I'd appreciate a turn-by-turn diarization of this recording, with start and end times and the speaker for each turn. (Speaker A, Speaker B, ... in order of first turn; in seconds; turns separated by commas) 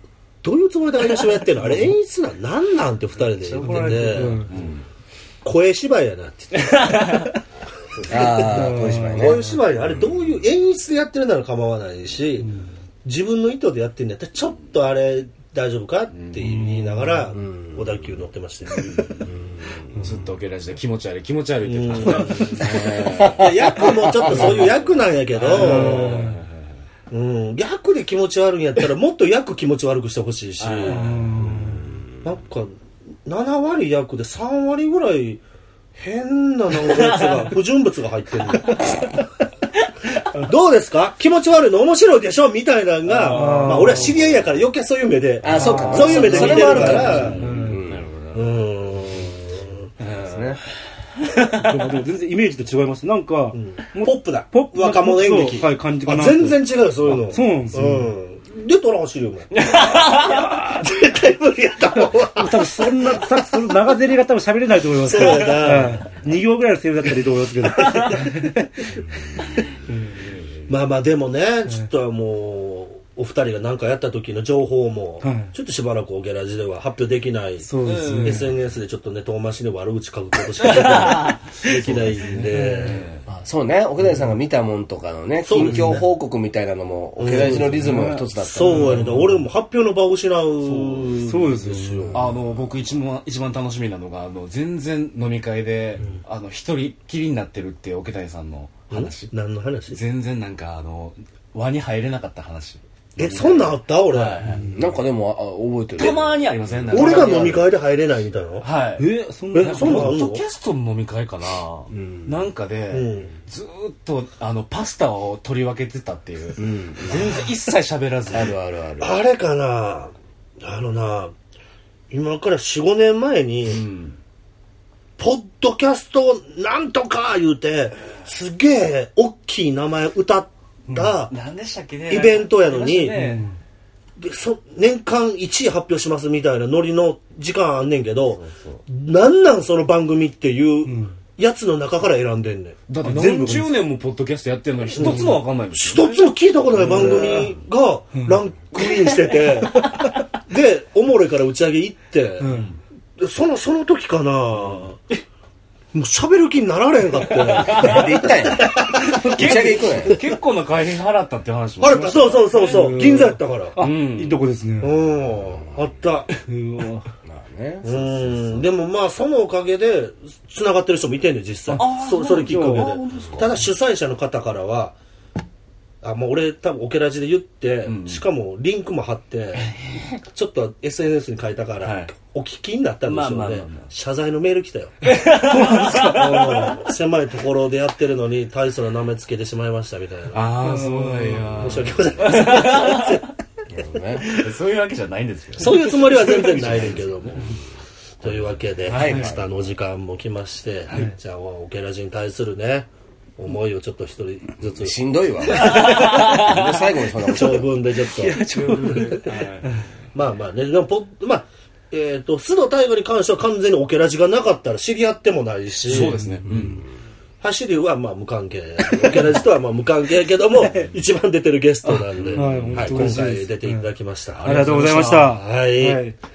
Speaker A: 0.4-4.4, Speaker B: 3.3-4.8, Speaker C: 3.6-4.5, Speaker A: 5.4-6.6, Speaker B: 6.5-7.4, Speaker A: 7.9-8.5, Speaker D: 8.1-9.5, Speaker C: 8.4-9.4, Speaker A: 9.1-12.5, Speaker C: 12.4-12.7, Speaker A: 13.0-18.9, Speaker B: 16.1-16.6, Speaker C: 16.4-17.3, Speaker D: 17.4-17.9, Speaker B: 18.7-19.3, Speaker D: 19.2-19.9, Speaker B: 20.0-26.8, Speaker A: 21.6-26.3, Speaker D: 22.6-24.6, Speaker C: 25.5-26.4, Speaker A: 27.1-31.0, Speaker B: 30.6-31.8, Speaker C: 30.9-31.9, Speaker A: 32.2-32.7, Speaker A: 33.2-35.4, Speaker A: 36.0-39.1, Speaker A: 40.3-47.4, Speaker B: 43.0-44.5, Speaker C: 43.2-44.1, Speaker D: 45.4-48.0, Speaker C: 45.5-47.8, Speaker B: 45.7-48.4, Speaker A: 48.3-49.9, Speaker B: 50.0-50.5, Speaker D: 50.1-50.6, Speaker B: 51.3-51.7, Speaker C: 51.5-56.6, Speaker A: 53.5-59.6, Speaker C: 57.3-58.1, Speaker B: 59.5-60.8, Speaker C: 60.3-60.8, Speaker A: 60.5-62.7, Speaker C: 62.3-68.7, Speaker A: 65.0-66.0, Speaker B: 65.5-65.8, Speaker B: 67.8-68.3, Speaker B: 70.2-70.6, Speaker A: 70.7-83.0, Speaker C: 75.2-75.5, Speaker C: 77.6-78.5, Speaker B: 77.8-78.5, Speaker B: 80.6-83.2, Speaker C: 82.3-83.0, Speaker D: 83.3-89.1, Speaker A: 85.4-86.0, Speaker C: 85.6-86.0, Speaker A: 87.2-92.3, Speaker C: 87.5-89.3, Speaker B: 88.8-89.2, Speaker B: 90.6-91.1, Speaker C: 91.2-92.2, Speaker B: 92.1-99.3, Speaker A: 98.9-100.0, Speaker B: 99.9-104.7, Speaker A: 103.2-104.4, Speaker C: 104.4-104.9, Speaker D: 104.6-107.6, Speaker B: 106.0-107.7, Speaker A: 106.9-108.7, Speaker B: 108.6-118.5, Speaker C: 109.0-110.2, Speaker A: 109.5-110.4, Speaker D: 111.9-112.5, Speaker A: 112.9-113.3, Speaker D: 116.6-117.3, Speaker D: 118.3-119.2, Speaker A: 119.0-121.3, Speaker A: 122.1-123.8, Speaker B: 123.7-124.2, Speaker A: 125.2-131.3, Speaker B: 131.3-133.5, Speaker A: 132.1-133.2, Speaker C: 133.1-133.6, Speaker A: 134.2-142.8, Speaker B: 138.4-138.8, Speaker C: 140.8-141.1, Speaker B: 142.9-147.4, Speaker C: 143.0-143.7, Speaker A: 144.9-149.9, Speaker C: 145.0-145.4, Speaker C: 146.8-147.5, Speaker C: 148.1-148.4, Speaker B: 148.7-149.8, Speaker A: 150.5-152.5, Speaker C: 152.4-152.7, Speaker B: 152.4-152.8, Speaker A: 153.2-155.0, Speaker A: 155.9-160.2, Speaker B: 157.3-163.0, Speaker D: 157.7-160.2, Speaker A: 161.8-163.8, Speaker C: 162.5-165.0, Speaker B: 163.8-164.4, Speaker A: 164.8-166.3, Speaker C: 166.5-167.1, Speaker D: 167.2-168.6, Speaker A: 167.8-174.9, Speaker C: 171.7-173.0, Speaker B: 171.7-173.6, Speaker A: 176.0-179.7, Speaker B: 177.8-178.2, Speaker B: 179.6-180.1, Speaker A: 180.3-185.0, Speaker B: 181.8-182.1, Speaker B: 183.1-183.9, Speaker B: 185.0-186.6, Speaker C: 185.3-186.8, Speaker A: 186.0-190.4, Speaker B: 190.3-193.2, Speaker C: 190.6-191.6, Speaker A: 191.5-193.2, Speaker D: 193.7-194.3, Speaker B: 194.2-197.6, Speaker A: 195.6-197.5, Speaker A: 198.2-205.0, Speaker B: 198.9-199.3, Speaker D: 198.9-199.4, Speaker D: 204.8-207.7, Speaker B: 205.5-206.8, Speaker C: 205.6-206.4, Speaker A: 207.3-209.1, Speaker C: 208.2-209.3, Speaker B: 208.4-209.8, Speaker A: 210.1-216.2, Speaker B: 215.9-216.8, Speaker C: 215.9-216.4, Speaker D: 216.5-216.8, Speaker A: 217.4-224.5, Speaker B: 222.1-223.2, Speaker C: 222.3-223.8, Speaker B: 224.3-225.4, Speaker C: 224.4-226.1, Speaker A: 225.2-226.1